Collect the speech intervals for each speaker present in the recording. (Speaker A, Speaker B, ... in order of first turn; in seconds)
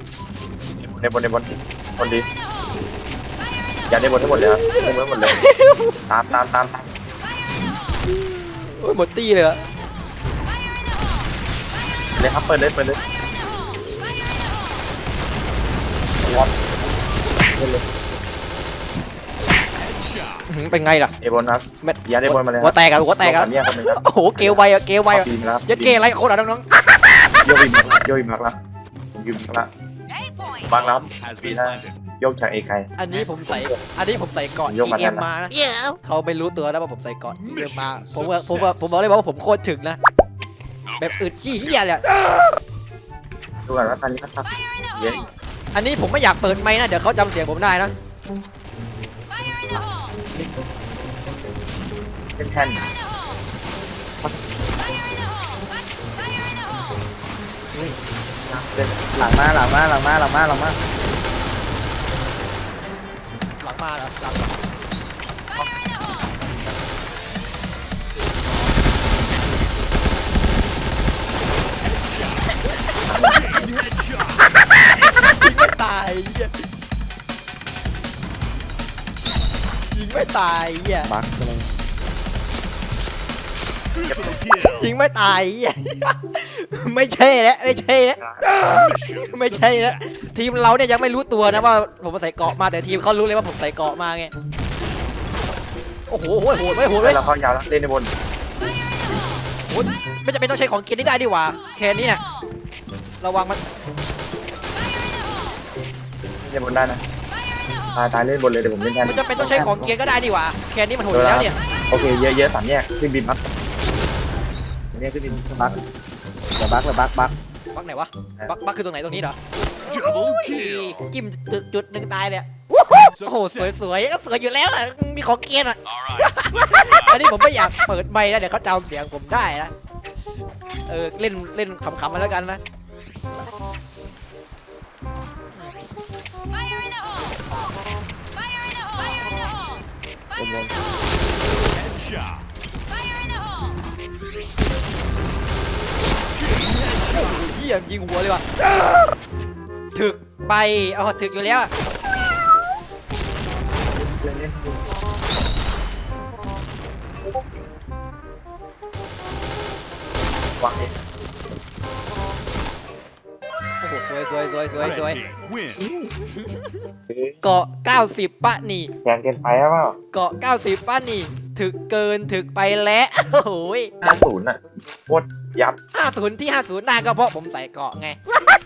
Speaker A: 0.8-2.3, 3.9-5.4, 6.1-6.9, 12.1-13.0, 16.2-16.5, 17.5-17.8, 21.2-25.9, 27.4-28.6, 29.1-29.7, 30.7-33.8, 34.7-35.3, 43.6-45.3, 52.4-52.9, 58.5-59.5, 73.1-73.7, 81.1-81.7, 84.1-84.4, 88.2-88.4, 97.0-98.1, 106.4-107.0, 107.9-109.9, 111.1-113.4, 114.9-115.8, 140.4-140.7, 153.9-154.8, 160.6-160.9, 165.8-166.1, 167.1-167.3, 169.0-170.0, 174.0-175.8
Speaker B: 4.2-6.0, 8.1-9.6, 20.5-21.1, 21.8-27.3, 33.0-40.0, 41.0-42.0, 45.7-47.9, 63.6-64.5, 74.5-76.5, 79.9-81.1, 84.6-94.3, 96.1-97.2, 99.7-102.2, 103.2-103.6, 109.0-111.6, 117.7-119.3, 119.9-122.5, 123.0-129.7, 130.9-132.6, 147.1-148.4, 149.9-151.7, 163.8-165.2, 166.2-166.8, 167.4-168.9, 170.1-174.0, 175.9-178.2
Speaker C: 19.8-20.4, 30.7-32.0, 37.4-38.7, 73.3-74.3, 84.0-84.8, 88.6-90.0, 119.8-121.0, 123.2-123.7, 126.1-126.9, 141.8-142.4, 146.4-147.3, 164.8-165.8
Speaker D: 35.5-36.0, 59.2-60.8, 116.6-117.3